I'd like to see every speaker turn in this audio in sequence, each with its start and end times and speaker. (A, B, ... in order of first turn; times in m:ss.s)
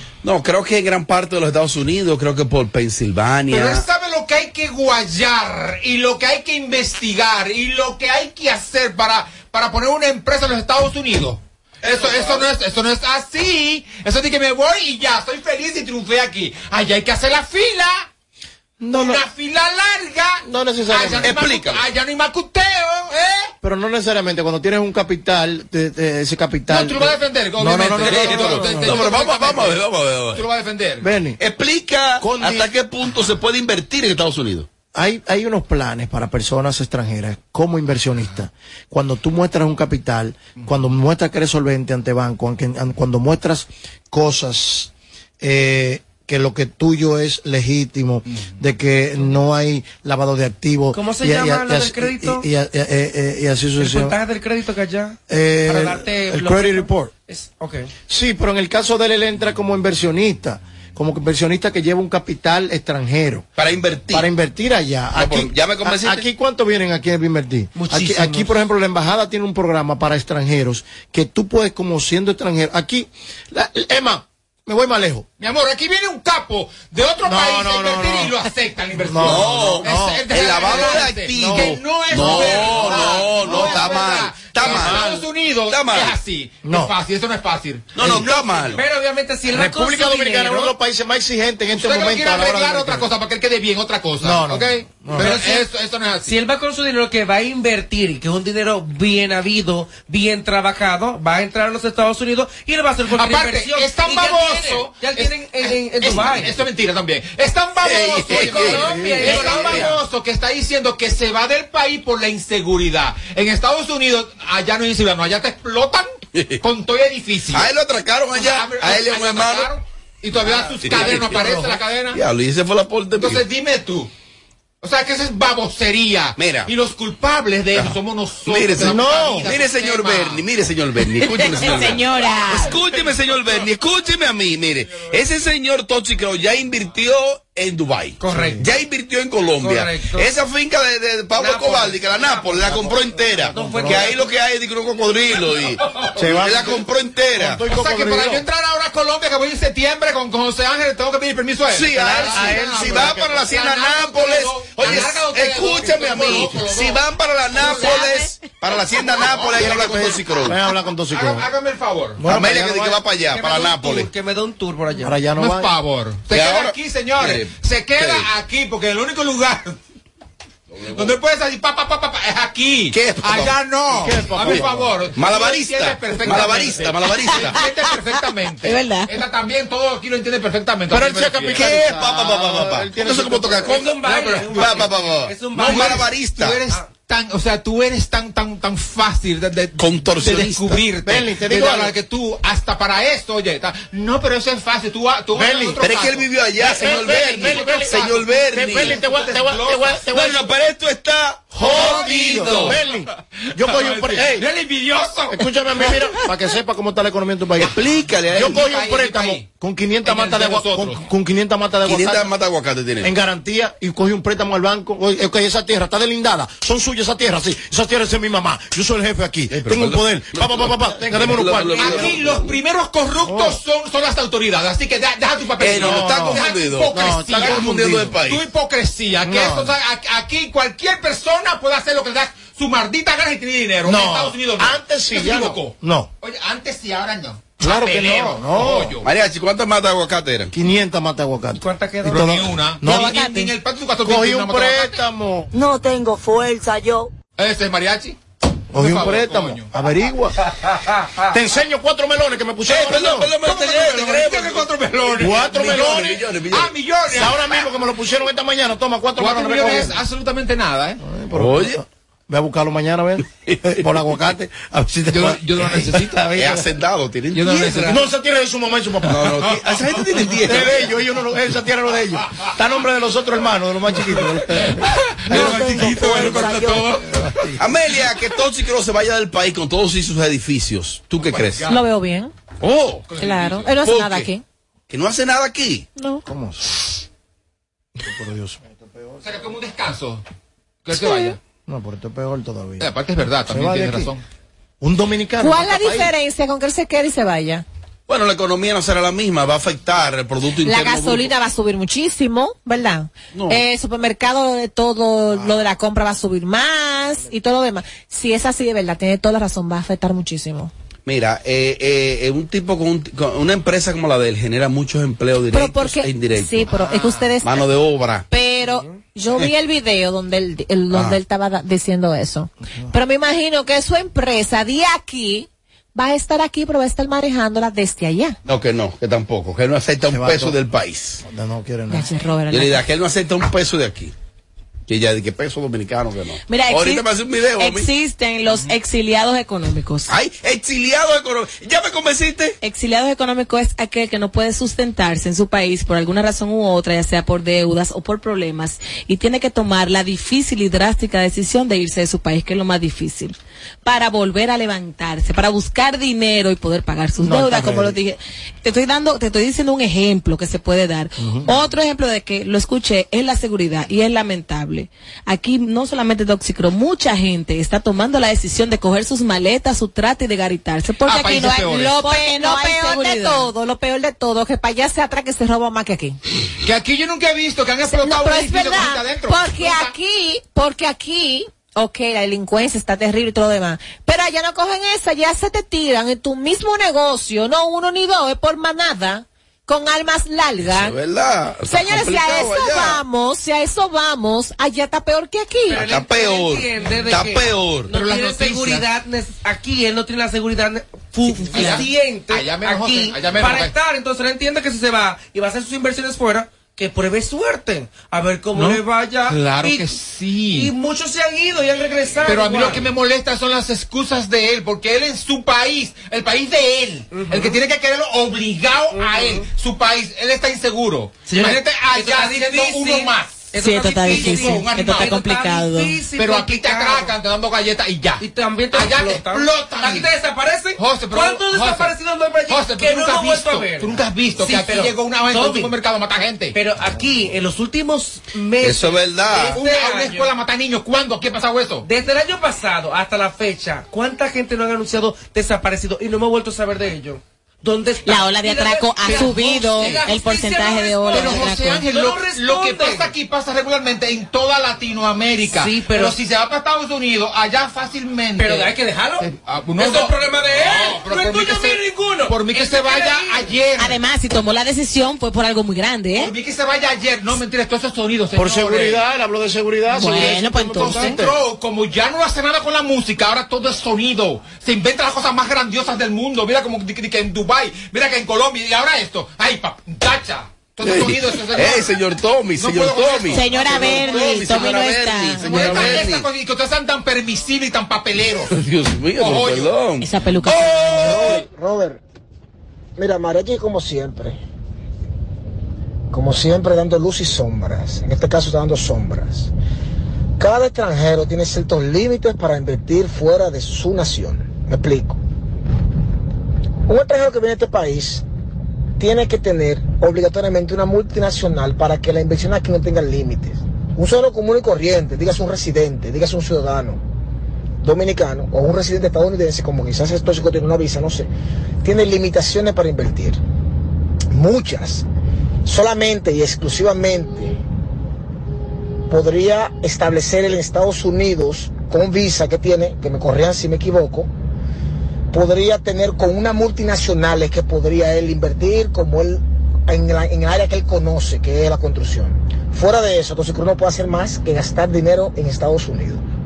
0:00.2-0:03.8 A
0:03.5-0:18.1 B
0:11.9-0:12.4 A
0:18.8-0:19.2 C
0:18.9-0:23.5 B
0:20.4-0:21.3 C
0:21.2-0:21.8 A
0:23.6-0:29.1 C
0:26.7-0:29.8 B
0:28.0-0:30.4 A
0:30.3-0:31.0 B
0:31.0-0:31.4 C
0:31.4-0:34.7 A
0:32.2-0:32.7 C
0:34.9-0:54.2 C
0:50.9-0:52.4 D
0:53.8-0:57.9 D
0:55.3-0:57.1 C
0:58.1-1:03.4 C
1:03.6-1:04.3 A
1:04.1-1:15.2 C
1:05.1-1:06.2 A
1:07.7-1:08.5 D
1:15.4-1:28.0 B
1:17.2-1:18.3 C
1:19.0-1:23.9 C
1:19.2-1:25.0 A
1:24.6-1:25.2 C
1:25.7-1:26.1 A
1:26.6-1:26.9 C
1:27.9-1:28.8 A
1:28.1-1:30.7 D
1:29.5-1:33.1 C
1:31.7-1:36.4 B
1:34.2-1:35.4 C
1:35.2-1:35.6 D
1:36.3-1:46.5 D
1:43.1-1:56.0 B
1:47.8-1:49.9 A
1:48.3-1:49.8 D
1:48.9-1:49.5 C
1:56.6-1:57.7 B
1:57.5-1:59.7 A
1:58.3-2:02.2 B
2:00.8-2:03.4 A
2:03.2-2:04.1 B
2:04.8-2:10.4 B
2:06.4-2:06.7 A
2:08.5-2:27.6 A
2:08.8-2:09.5 C
2:11.2-2:12.8 E
2:18.2-2:18.6 D
2:18.3-2:18.6 C
2:19.6-2:20.3 D
2:21.4-2:22.0 D
2:23.4-2:24.1 C
2:23.5-2:24.2 D
2:26.1-2:28.4 C
2:27.7-2:38.0 B
2:31.7-2:40.6 A
2:31.9-2:33.4 C
2:37.8-2:38.2 E
2:39.2-2:39.8 B
2:39.5-2:41.4 C
2:41.1-2:42.2 B
2:42.2-2:43.0 C
2:42.2-2:44.1 A
2:43.3-2:45.1 D
2:45.0-2:45.7 C
2:45.4-2:49.8 B
2:46.3-2:48.3 A
2:50.7-2:51.1 A
2:50.9-3:01.7 B
2:52.9-2:53.5 A
2:53.9-2:55.0 C
2:54.4-2:57.6 A
2:58.6-2:59.1 E
3:00.9-3:03.9 C
3:01.5-3:06.6 A
3:03.6-3:06.1 D
3:04.0-3:04.8 B
3:05.5-3:20.0 B
3:09.8-3:10.8 A
3:11.0-3:11.9 C
3:15.3-3:15.8 C
3:15.8-3:19.0 A
3:16.6-3:20.5 C
3:20.1-3:22.7 A
3:21.5-3:24.4 C
3:21.6-3:22.9 B
3:23.5-3:25.9 B
3:25.3-3:27.8 C
3:27.6-3:28.6 A
3:27.6-3:29.4 B
3:28.3-3:32.3 C
3:30.0-3:31.0 B
3:31.8-3:33.1 A
3:33.0-3:42.2 C
3:39.5-3:42.5 A
3:41.7-3:59.0 B
3:43.2-3:43.6 C
3:45.6-3:48.4 A
3:45.7-3:48.2 C
3:49.2-3:49.7 C
3:53.8-3:56.1 C
3:57.6-3:59.0 C
3:59.0-4:00.5 A
4:00.5-4:03.3 C
4:01.6-4:02.2 D
4:02.0-4:05.0 B
4:02.9-4:03.3 E
4:04.0-4:05.5 C
4:05.5-4:07.1 F
4:07.4-4:08.2 B
4:08.7-4:10.4 C
4:08.7-4:09.7 B
4:11.3-4:13.3 C
4:12.6-4:14.7 A
4:13.4-4:17.6 B
4:15.2-4:16.2 C
4:15.4-4:16.7 A
4:17.1-4:20.0 C
4:19.2-4:21.0 B
4:21.0-4:26.6 C
4:21.3-4:21.8 A
4:23.4-4:23.8 A
4:25.1-4:26.2 B
4:26.3-4:28.0 A
4:27.3-4:28.0 B
4:27.8-4:29.5 C
4:29.0-4:30.8 A
4:30.4-4:36.5 C
4:34.5-4:37.3 B
4:35.3-4:36.9 F
4:37.1-4:37.6 C
4:37.6-4:41.6 A
4:41.2-4:41.8 B
4:41.6-4:42.3 G
4:42.6-4:43.1 A
4:43.1-4:43.7 B
4:43.2-4:44.4 G
4:43.8-4:44.3 A
4:44.9-4:45.9 A
4:46.0-4:46.2 G
4:46.2-4:46.7 C
4:48.0-4:49.3 C
4:49.2-4:50.2 B
4:50.8-4:51.4 B
4:51.0-4:51.3 G
4:51.7-4:52.9 C
4:52.8-4:54.2 B
4:53.5-4:54.1 C
4:54.8-4:56.1 C
4:55.4-4:57.6 G
4:58.1-5:01.3 A
5:00.6-5:10.7 G
5:03.3-5:03.6 A
5:11.0-5:18.3 A
5:15.5-5:17.7 G
5:18.3-5:28.4 G
5:20.9-5:21.2 A
5:28.4-5:31.2 A
5:30.1-5:30.6 C
5:31.2-5:32.1 C
5:31.9-5:32.8 G
5:32.5-5:34.1 A
5:34.9-5:37.9 A
5:36.5-5:40.1 E
5:40.1-5:42.6 A
5:42.6-6:13.5 E
5:57.2-5:58.0 C
6:01.2-6:01.5 C
6:11.0-6:12.0 B
6:11.4-6:16.2 G
6:16.6-6:19.9 B
6:17.9-6:31.0 G
6:30.6-6:33.0 A
6:31.6-6:35.8 G
6:35.7-6:49.9 D
6:35.7-6:37.9 A
6:37.9-6:38.8 B
6:41.5-6:43.7 B
6:48.5-6:50.7 B
6:50.6-6:52.8 D
6:52.2-7:05.3 B
6:57.1-6:57.5 D
6:59.0-6:59.4 D
7:01.3-7:07.1 D
7:03.6-7:06.0 E
7:06.2-7:10.1 B
7:08.2-7:15.7 D
7:10.8-7:12.0 B
7:12.5-7:16.6 B
7:16.5-7:20.3 D
7:18.6-7:19.6 A
7:19.3-7:21.9 B
7:21.8-7:33.1 D
7:28.0-7:31.9 E
7:29.1-7:30.0 B
7:31.1-7:44.0 B
7:35.6-7:36.1 D
7:38.4-7:43.4 D
7:43.8-7:46.3 E
7:46.1-7:49.0 B
7:48.3-7:51.4 C
7:49.9-7:51.2 E
7:50.8-8:02.0 B
8:00.8-8:06.3 A
8:02.6-8:04.6 B
8:03.3-8:06.0 E
8:05.4-8:08.5 B
8:08.5-8:11.3 A
8:09.2-8:09.7 B
8:10.0-8:11.1 E
8:11.0-8:12.0 H
8:11.1-8:11.4 B
8:13.0-8:14.4 H
8:16.1-8:19.5 H
8:20.4-8:25.2 H
8:26.9-8:28.2 H
8:29.0-8:37.0 H
8:37.8-8:41.3 H
8:41.8-8:43.4 H
8:44.3-8:45.0 H
8:45.6-8:47.6 H
8:49.1-8:54.3 H
8:55.3-9:06.2 H